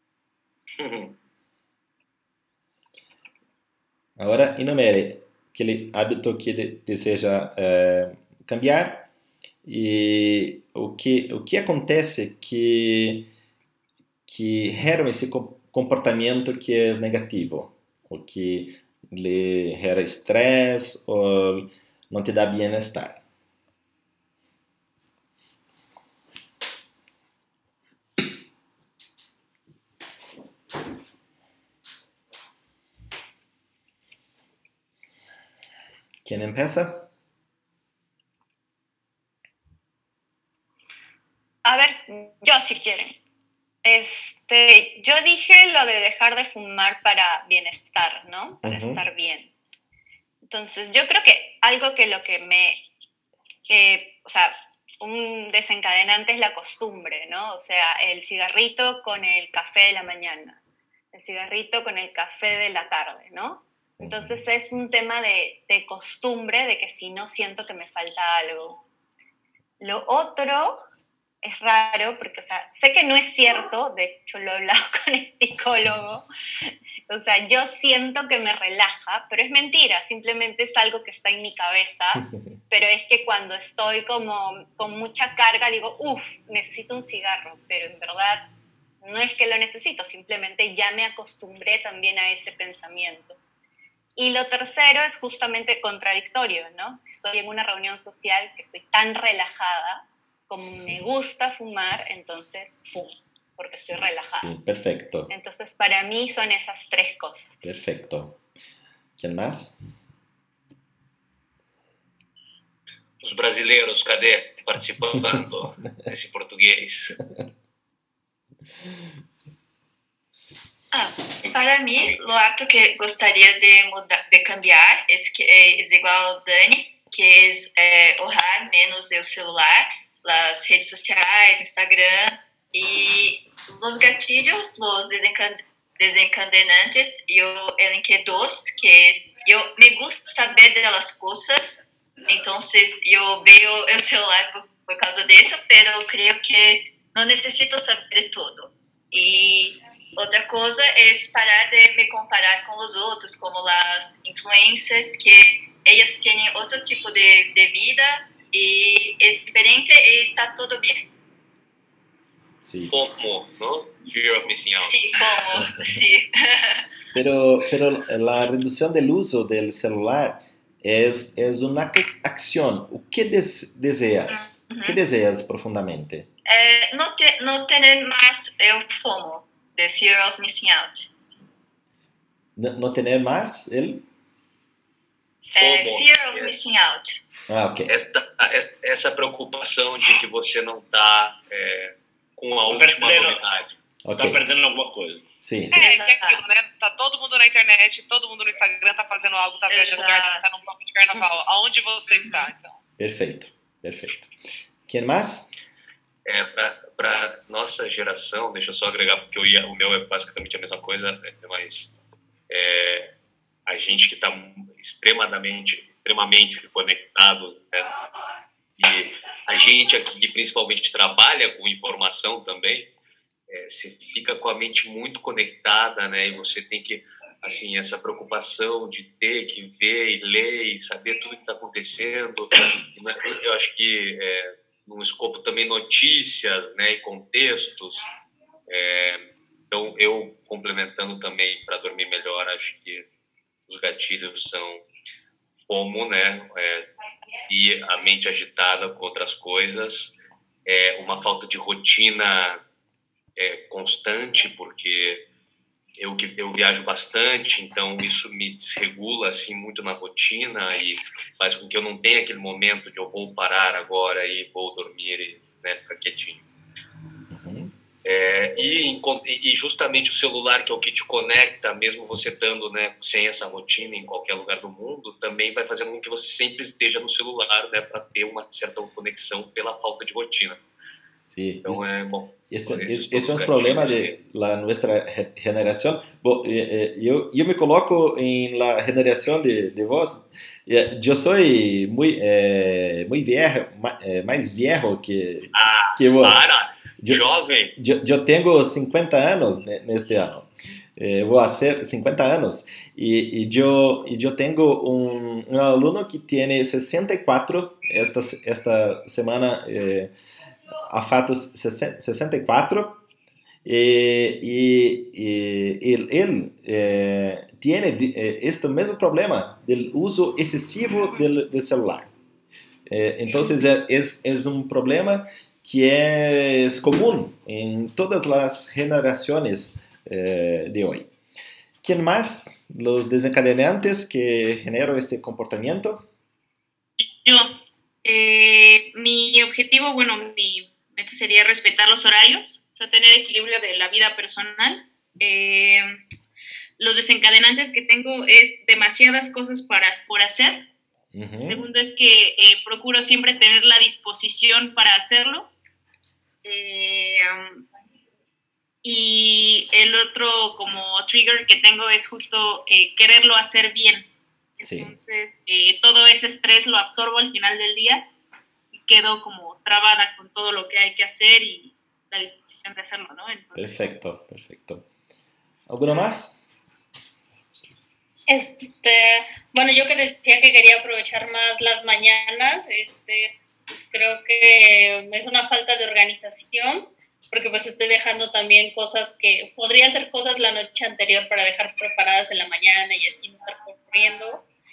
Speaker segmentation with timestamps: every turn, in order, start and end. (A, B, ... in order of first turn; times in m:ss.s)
0:00.8-0:01.1 A
0:04.2-0:09.1 B
0:09.6-0:13.3 B
0:14.3-0:23.2 B
0:36.2-0:37.1 B
0:41.6-0:43.2 C
0:43.8-0:49.5 C
0:48.6-0:49.0 B
0:50.4-0:52.8 C
0:53.7-1:00.6 C
1:01.1-1:08.8 C
1:04.0-1:04.4 B
1:09.8-1:10.8 C
1:11.4-1:16.2 C
1:17.1-1:28.5 C
1:29.0-1:33.4 C
1:34.2-1:44.5 C
1:44.4-1:45.3 B
1:45.3-1:47.7 C
1:47.6-1:48.4 B
1:49.2-1:49.8 B
1:53.2-1:57.2 D
2:00.9-2:41.1 E
2:01.5-2:02.1 D
2:42.6-2:42.9 B
2:42.8-2:45.0 D
2:44.8-2:46.8 E
2:45.6-2:45.9 B
2:47.1-2:56.3 B
2:54.3-2:55.0 E
2:56.4-3:01.1 E
3:02.6-3:04.0 B
3:05.4-3:07.2 E
3:05.6-3:06.7 D
3:07.5-3:07.9 B
3:07.9-3:13.7 D
3:12.7-3:13.4 A
3:14.0-3:14.4 B
3:14.2-3:15.2 A
3:15.4-3:15.8 B
3:15.7-3:16.4 E
3:15.7-3:22.7 F
3:19.7-3:20.5 E
3:23.0-3:24.3 B
3:24.9-3:25.5 B
3:26.2-3:31.9 D
3:32.5-3:33.1 D
3:33.6-3:37.9 D
3:38.8-3:42.9 D
3:43.5-3:58.1 D
3:58.7-4:03.1 D
4:03.7-4:04.8 D
4:05.7-4:06.9 D
4:07.5-4:10.1 D
4:10.6-4:12.6 D
4:13.4-4:15.2 D
4:16.0-4:26.4 D
4:27.3-4:27.7 B
4:28.0-4:40.6 D
4:41.3-4:41.9 B
4:41.6-4:44.2 D
4:42.5-4:57.2 B
4:55.5-4:57.7 D
4:57.8-5:10.1 B
5:10.8-5:13.0 B
5:13.6-5:22.1 B
5:22.9-5:31.1 B
5:31.8-5:36.0 B
5:37.2-5:37.5 G
5:38.0-5:46.0 G
5:46.8-5:50.7 G
5:51.1-5:51.6 B
5:51.4-5:55.5 G
5:56.4-5:57.6 G
5:58.8-6:04.0 G
6:04.6-6:08.1 G
6:04.6-6:04.9 B
6:08.7-6:13.8 G
6:13.5-6:14.8 B
6:15.7-6:16.4 B
6:18.3-6:34.4 H